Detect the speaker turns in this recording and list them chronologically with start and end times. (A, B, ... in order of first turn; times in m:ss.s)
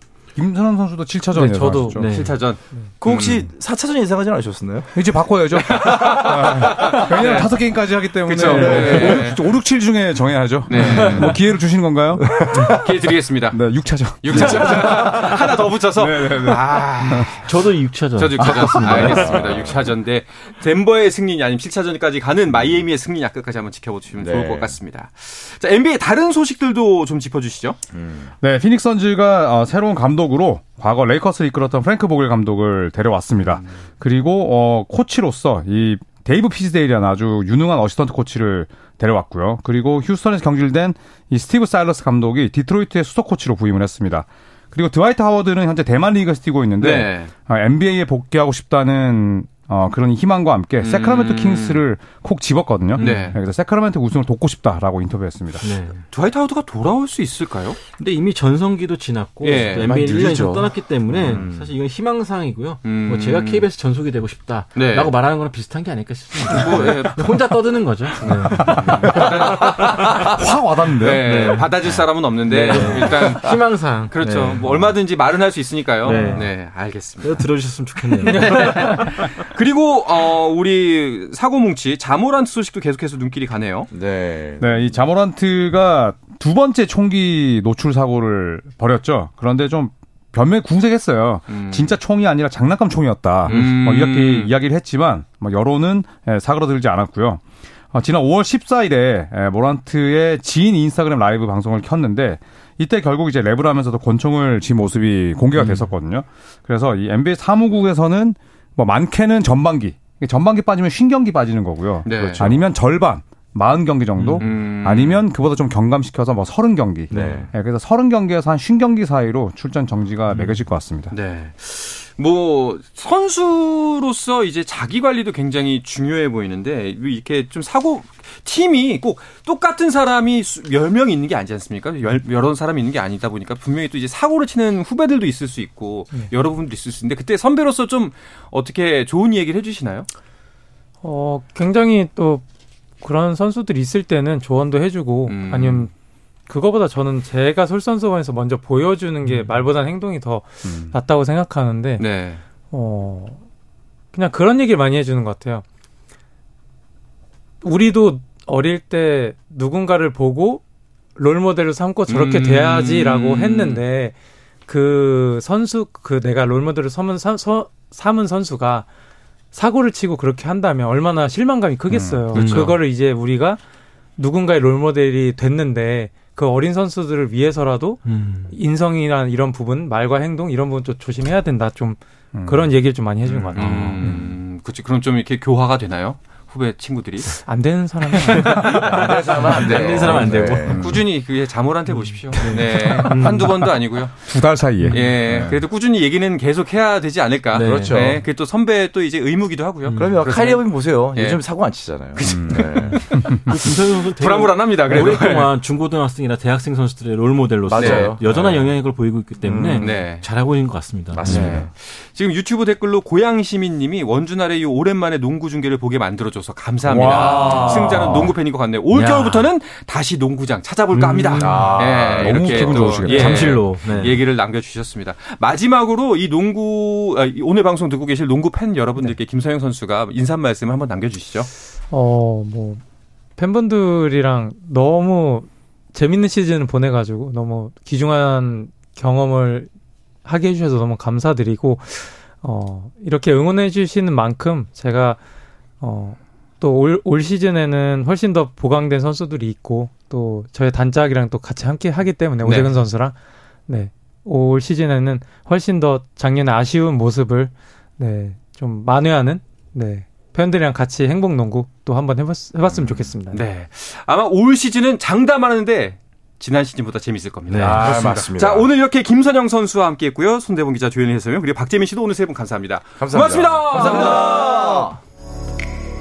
0:00.4-0:02.2 A
0:01.3-0:02.0 B
0:02.0-0:02.4 C
0:02.0-0:03.5 D
0:03.0-0:05.0 E
0:05.0-0:12.4 A
0:05.6-0:07.6 D
0:08.2-0:09.5 D
0:08.5-0:09.2 E
0:10.7-0:11.4 D
0:11.0-0:11.2 C
0:12.2-0:13.0 E
0:12.6-0:13.6 D
0:13.5-0:15.4 A
0:14.2-0:17.5 D
0:14.4-0:14.9 E
0:16.0-0:17.3 A
0:17.4-0:19.4 C
0:18.2-0:27.8 D
0:18.4-0:19.9 E
0:18.6-0:19.3 A
0:22.5-0:22.8 E
0:24.2-0:24.8 E
0:27.9-0:28.3 E
0:28.4-0:55.6 A
0:46.8-0:47.3 D
0:50.8-0:51.8 D
0:53.0-0:53.4 C
0:53.0-0:53.4 D
0:55.6-0:56.0 C
0:56.1-0:57.8 D
0:58.0-1:10.3 C
0:59.4-0:59.9 D
0:59.7-1:01.7 E
1:02.8-1:03.6 D
1:04.8-1:05.1 D
1:06.5-1:07.4 D
1:08.2-1:10.4 D
1:08.6-1:09.2 A
1:08.7-1:09.1 E
1:10.2-1:11.4 A
1:11.0-1:17.5 D
1:11.2-1:11.7 C
1:12.4-1:14.9 C
1:16.0-1:16.5 C
1:16.1-1:16.4 A
1:17.2-1:19.1 C
1:18.2-1:23.9 D
1:18.3-1:18.8 B
1:23.9-1:24.9 E
1:24.6-2:01.1 A
1:31.5-1:32.0 D
1:33.5-1:34.5 D
1:52.1-1:52.5 D
1:52.1-1:52.6 E
1:54.2-1:54.4 C
1:54.4-1:55.2 D
1:57.1-1:57.4 C
1:57.1-1:57.5 E
2:01.1-2:20.1 D
2:21.0-2:22.4 B
2:23.0-2:25.9 B
2:25.3-2:25.9 D
2:26.5-2:32.0 B
2:30.6-2:31.0 A
2:32.0-2:32.4 D
2:32.7-2:33.4 B
2:34.1-2:35.6 B
2:37.6-2:40.6 B
2:41.2-2:44.2 B
2:42.1-2:43.8 D
2:44.7-2:48.9 B
2:49.5-2:53.6 B
2:51.9-2:52.7 A
2:52.3-2:52.7 C
2:54.2-3:03.7 B
2:58.0-2:58.6 C
3:02.3-3:02.8 A
3:03.2-3:07.4 D
3:03.6-3:04.1 C
3:03.7-3:04.3 A
3:07.5-3:08.8 B
3:08.2-3:10.8 C
3:08.6-3:09.0 D
3:08.8-3:10.9 E
3:09.5-3:14.2 D
3:10.7-3:11.0 A
3:11.9-3:13.7 C
3:14.3-3:15.6 A
3:14.8-3:15.1 C
3:14.9-3:21.4 D
3:17.5-3:18.2 C
3:17.6-3:18.2 E
3:19.8-3:20.6 C
3:20.0-3:23.3 E
3:22.1-3:25.5 D
3:22.3-3:23.4 A
3:23.0-3:31.6 C
3:27.6-3:28.8 E
3:27.7-3:28.1 D
3:29.4-3:30.0 E
3:29.8-3:30.3 D
3:31.1-3:31.7 E
3:31.2-3:51.5 D
3:31.3-3:31.6 A
3:36.9-3:38.3 A
3:37.1-3:38.3 E
3:37.2-3:38.1 C
3:38.9-3:39.5 C
3:40.9-3:41.7 C
3:41.4-3:43.5 E
3:41.4-3:43.7 A
3:43.0-3:44.2 C
3:51.9-3:52.8 B
3:53.4-3:59.7 B
4:00.2-4:05.2 B
4:05.8-4:13.1 B
4:12.4-4:12.8 D
4:13.7-4:23.4 B
4:22.6-4:23.1 E
4:23.3-4:35.0 D
4:27.5-4:28.7 E
4:27.5-4:28.1 C
4:33.0-4:35.0 E